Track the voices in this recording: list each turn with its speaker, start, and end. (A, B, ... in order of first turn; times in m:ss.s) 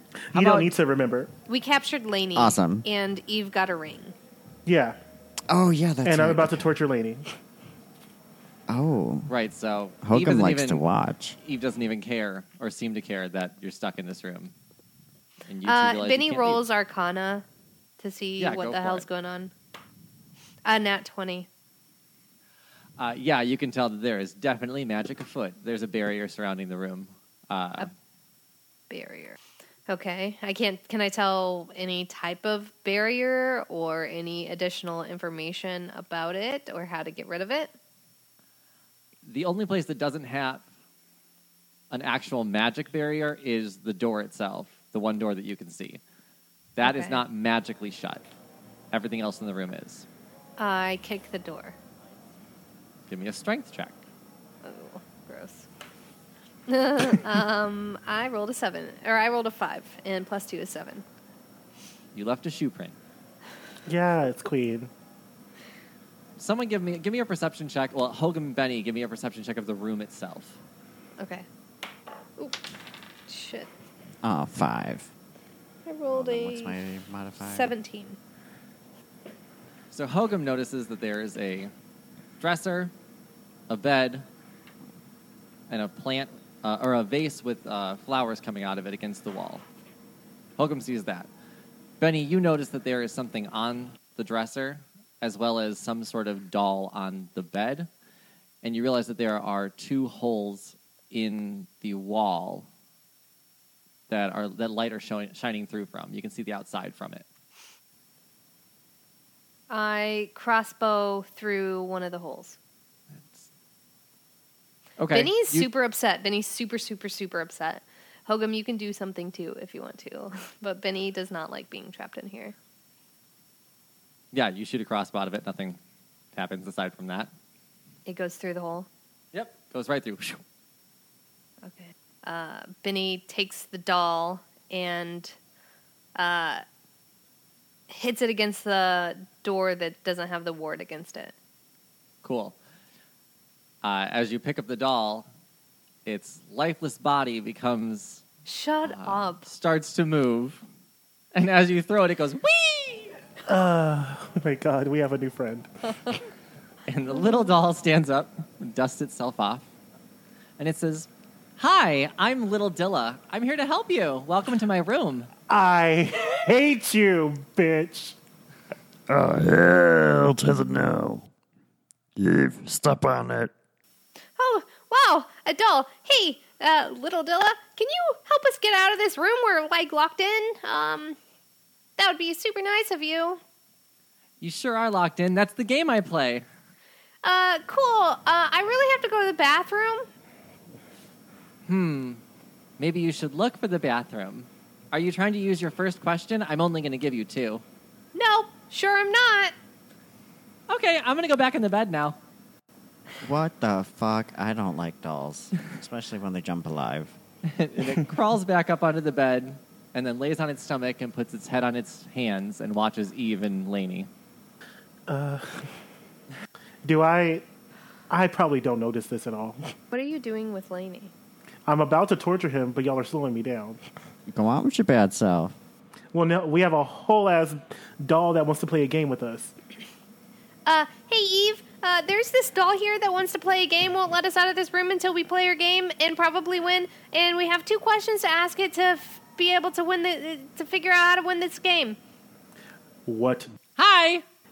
0:00.3-0:01.3 A
0:00.3-0:00.7 B
0:01.5-0:04.1 C
0:02.3-0:02.8 D
0:04.6-0:05.0 A
0:05.5-0:06.7 D
0:06.0-0:07.2 A
0:08.7-0:09.3 D
0:09.3-0:10.8 B
0:10.0-0:11.4 D
0:11.4-0:14.5 B
0:15.5-0:16.6 B
0:15.6-0:17.4 C
0:18.0-0:19.5 C
0:18.4-0:19.0 B
0:20.6-0:21.5 C
0:23.0-0:27.9 B
0:28.9-0:29.4 C
0:29.9-0:37.7 C
0:39.2-0:40.6 B
0:41.9-0:46.0 B
0:46.8-0:48.2 B
0:46.8-0:47.2 C
0:48.9-0:50.0 B
0:50.6-0:51.8 C
0:53.1-0:54.0 B
0:54.6-0:55.7 C
0:56.7-1:01.0 C
1:02.1-1:03.0 B
1:03.8-1:04.9 A
1:06.4-1:10.6 B
1:11.2-1:11.4 C
1:13.3-1:13.7 C
1:14.2-1:15.1 D
1:15.8-1:16.8 C
1:16.1-1:17.7 D
1:17.4-1:18.2 C
1:19.9-1:21.7 B
1:22.4-1:22.9 B
1:23.7-1:24.2 B
1:25.7-1:29.6 B
1:30.6-1:31.3 B
1:32.0-1:37.9 B
1:38.6-1:42.7 B
1:44.1-1:47.2 B
1:49.7-1:52.6 C
1:53.2-1:53.4 B
1:55.0-1:55.7 B
1:55.1-2:02.5 C
2:04.3-2:05.8 B
2:06.3-2:07.3 B
2:08.0-2:08.9 C
2:09.3-2:10.4 B
2:11.6-2:15.3 C
2:16.1-2:16.6 C
2:17.9-2:21.3 C
2:22.2-2:22.6 B
2:23.8-2:25.3 B
2:26.0-2:28.2 B
2:28.4-2:29.4 C
2:28.8-2:30.6 B
2:31.3-2:33.2 B
2:33.5-2:35.7 A
2:36.9-2:39.6 B
2:40.6-2:45.3 B
2:45.5-2:48.2 A
2:49.1-2:51.3 E
2:52.2-2:53.5 E
2:54.4-3:01.2 C
3:02.0-3:03.4 C
3:04.4-3:06.4 B
3:07.2-3:10.1 C
3:11.7-3:12.2 B
3:12.8-3:17.6 B
3:18.1-3:19.5 C
3:20.7-3:22.2 B
3:23.2-3:27.2 D
3:27.4-3:34.1 B
3:35.1-3:35.6 A
3:36.8-3:37.4 A
3:38.1-3:39.7 A
3:39.9-3:41.1 C
3:41.7-3:43.8 A
3:44.3-3:45.6 D
3:46.1-3:49.5 A
3:50.6-4:02.0 C
4:03.0-4:03.5 A
4:03.8-4:04.2 B